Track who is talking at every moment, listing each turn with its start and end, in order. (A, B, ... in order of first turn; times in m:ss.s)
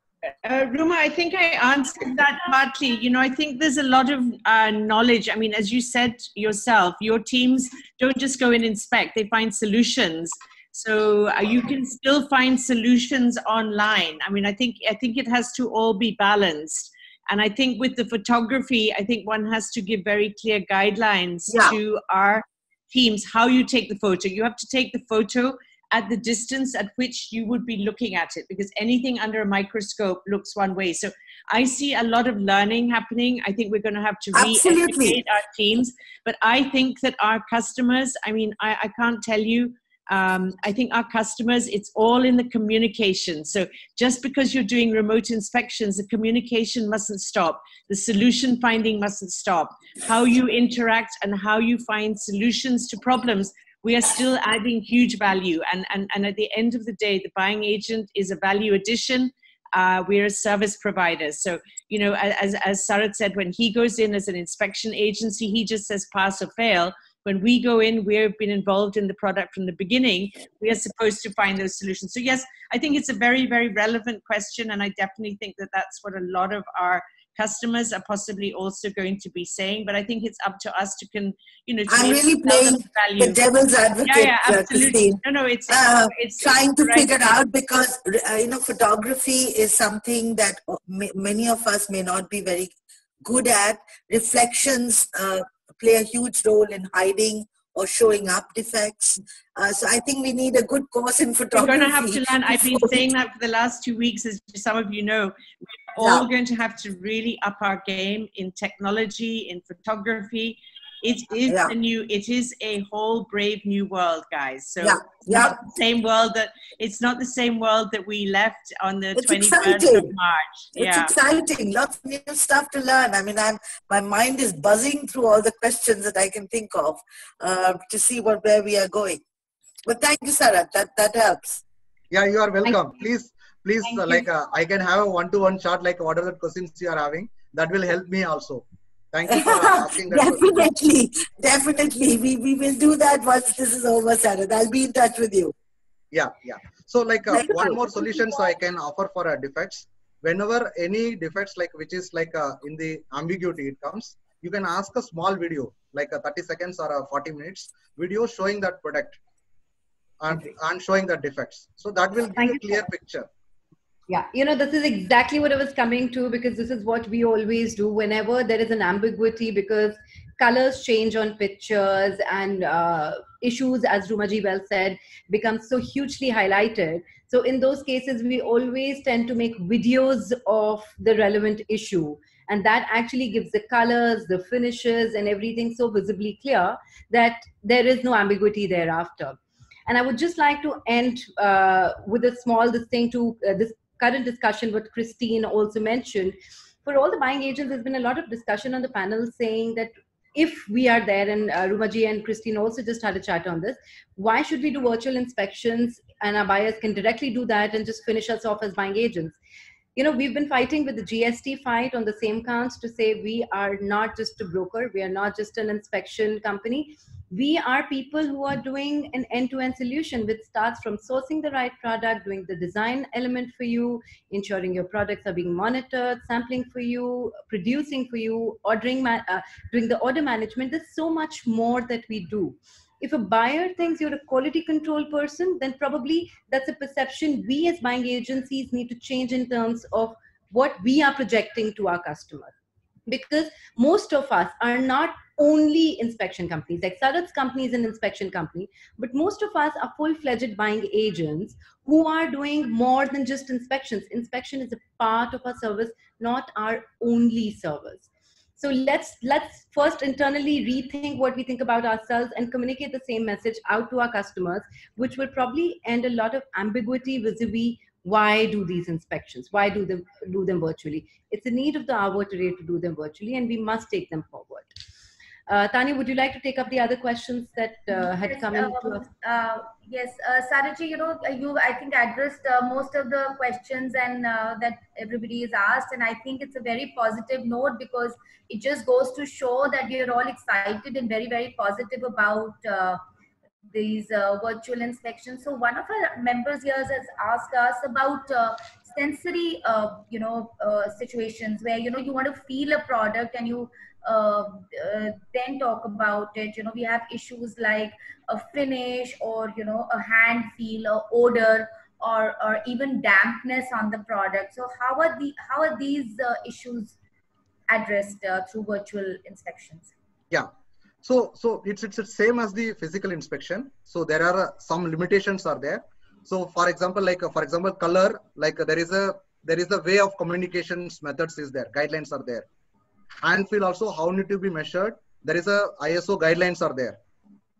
0:00.4-1:23.4 A
0:21.5-0:21.8 B
0:34.3-0:35.2 B
1:21.9-1:32.7 B
1:24.0-1:27.3 A
1:33.2-1:43.1 B
1:41.5-2:01.1 A
1:46.0-1:46.3 B
1:51.5-1:51.7 B
1:54.8-1:55.7 B
1:59.1-2:00.1 B
2:00.8-2:09.2 B
2:09.8-2:11.6 B
2:12.1-2:20.6 C
2:13.8-2:14.2 B
2:19.3-2:25.5 B
2:26.1-2:39.2 C
2:27.3-2:28.4 B
2:40.2-2:43.3 C
2:42.4-2:42.8 D
2:44.1-3:09.4 D
3:09.9-3:29.4 D
3:30.0-4:02.5 D
4:03.1-4:18.1 D
4:18.6-4:34.7 D
4:35.5-4:39.0 D
4:38.0-4:53.0 E
4:53.7-5:16.9 E
5:17.7-5:19.9 E
5:21.0-5:32.4 C
5:33.2-5:37.0 C